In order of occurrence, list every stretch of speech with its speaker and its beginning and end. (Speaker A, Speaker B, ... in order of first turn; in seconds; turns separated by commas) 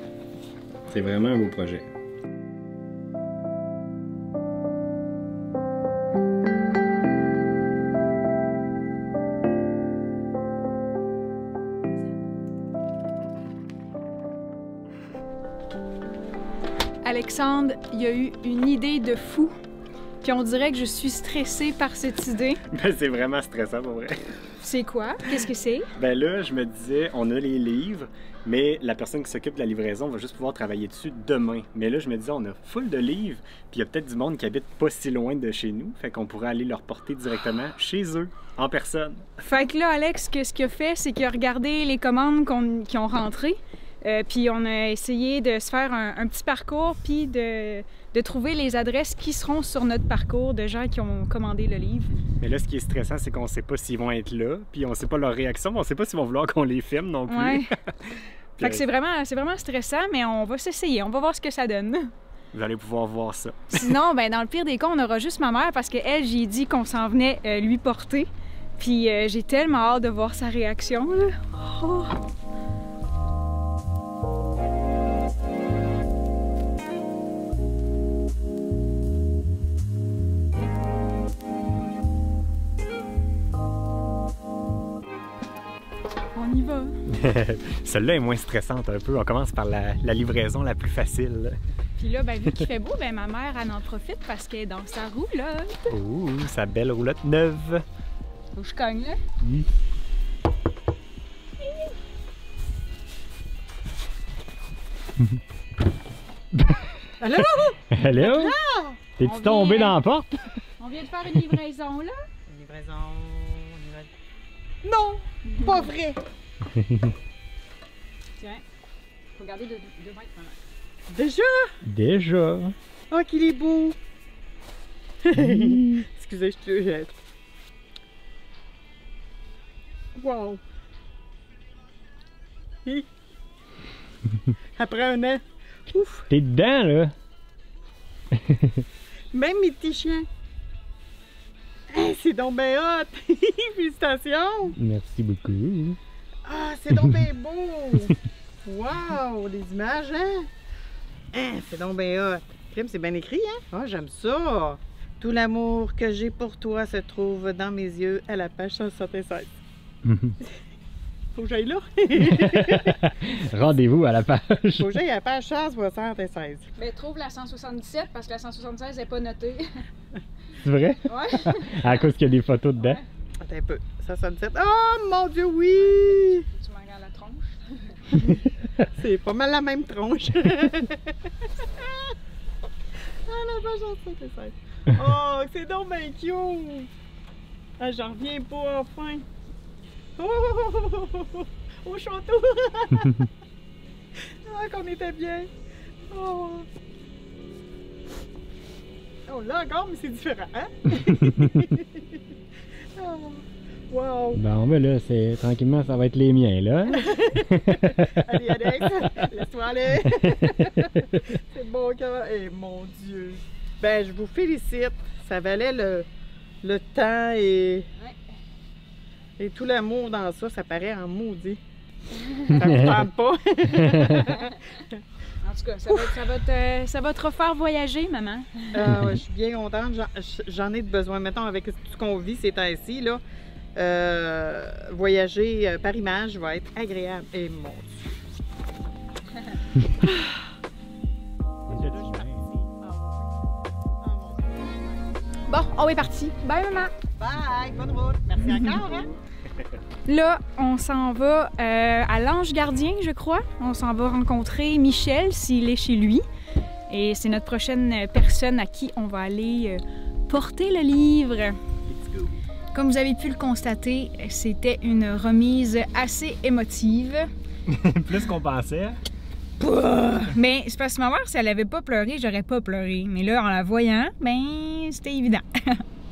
Speaker A: 0.9-1.9, Speaker B: 17.0-19.5, Speaker B: 20.2-22.6, Speaker A: 22.7-24.2, Speaker B: 24.6-25.9, Speaker A: 26.0-39.3, Speaker B: 39.4-52.1, Speaker A: 52.4-58.9, Speaker B: 57.3-57.7, Speaker B: 58.6-62.1, Speaker A: 62.5-64.0, Speaker B: 63.7-72.2, Speaker B: 86.3-86.9, Speaker A: 87.1-91.5, Speaker B: 92.0-96.0, Speaker A: 95.9-97.8, Speaker B: 98.5-99.2, Speaker A: 99.4-99.7, Speaker B: 101.6-101.9, Speaker A: 106.5-106.9, Speaker C: 107.2-109.0, Speaker A: 107.9-108.5, Speaker A: 109.2-110.5, Speaker B: 109.2-110.0, Speaker B: 110.8-112.2, Speaker C: 112.5-114.1, Speaker C: 114.8-116.2, Speaker B: 115.5-115.9, Speaker A: 116.7-117.2, Speaker B: 119.3-120.6, Speaker C: 121.1-121.8, Speaker A: 121.8-122.8, Speaker C: 123.1-124.0, Speaker C: 125.2-127.2, Speaker A: 125.4-126.0, Speaker C: 130.2-130.6, Speaker C: 134.8-136.3, Speaker A: 136.3-137.2, Speaker A: 138.3-138.8, Speaker C: 139.3-140.3, Speaker C: 141.9-144.8, Speaker A: 144.8-146.0, Speaker C: 146.5-148.1, Speaker C: 148.7-150.5, Speaker C: 151.3-159.5, Speaker A: 160.1-160.4, Speaker C: 161.3-163.0, Speaker A: 162.2-164.9, Speaker C: 164.8-166.7, Speaker B: 166.8-169.7, Speaker A: 170.6-173.0, Speaker B: 171.1-172.1, Speaker B: 172.8-173.0, Speaker C: 173.4-176.5, Speaker B: 175.7-178.0, Speaker C: 178.3-182.1, Speaker C: 183.2-186.9, Speaker C: 187.8-189.2, Speaker C: 190.2-193.3, Speaker C: 194.4-195.5, Speaker C: 196.1-196.7, Speaker C: 199.3-202.2, Speaker A: 200.9-201.6, Speaker C: 203.0-204.4, Speaker A: 204.3-208.3, Speaker C: 206.9-216.1, Speaker A: 210.4-210.9, Speaker C: 216.6-217.9, Speaker C: 219.4-221.6, Speaker B: 222.2-222.7, Speaker C: 222.5-225.0, Speaker A: 222.6-222.9, Speaker A: 223.9-224.3, Speaker B: 224.1-224.6, Speaker B: 225.4-228.7, Speaker C: 225.9-226.1, Speaker C: 228.7-233.2, Speaker C: 233.8-237.9, Speaker A: 241.7-242.5, Speaker C: 242.8-243.1, Speaker C: 244.0-245.0, Speaker B: 245.5-246.9, Speaker C: 247.1-249.1, Speaker B: 248.5-248.7, Speaker B: 250.1-256.2, Speaker B: 256.9-261.6, Speaker A: 261.9-262.3, Speaker B: 262.7-267.3, Speaker A: 267.7-269.0, Speaker C: 269.6-270.1, Speaker B: 270.3-275.8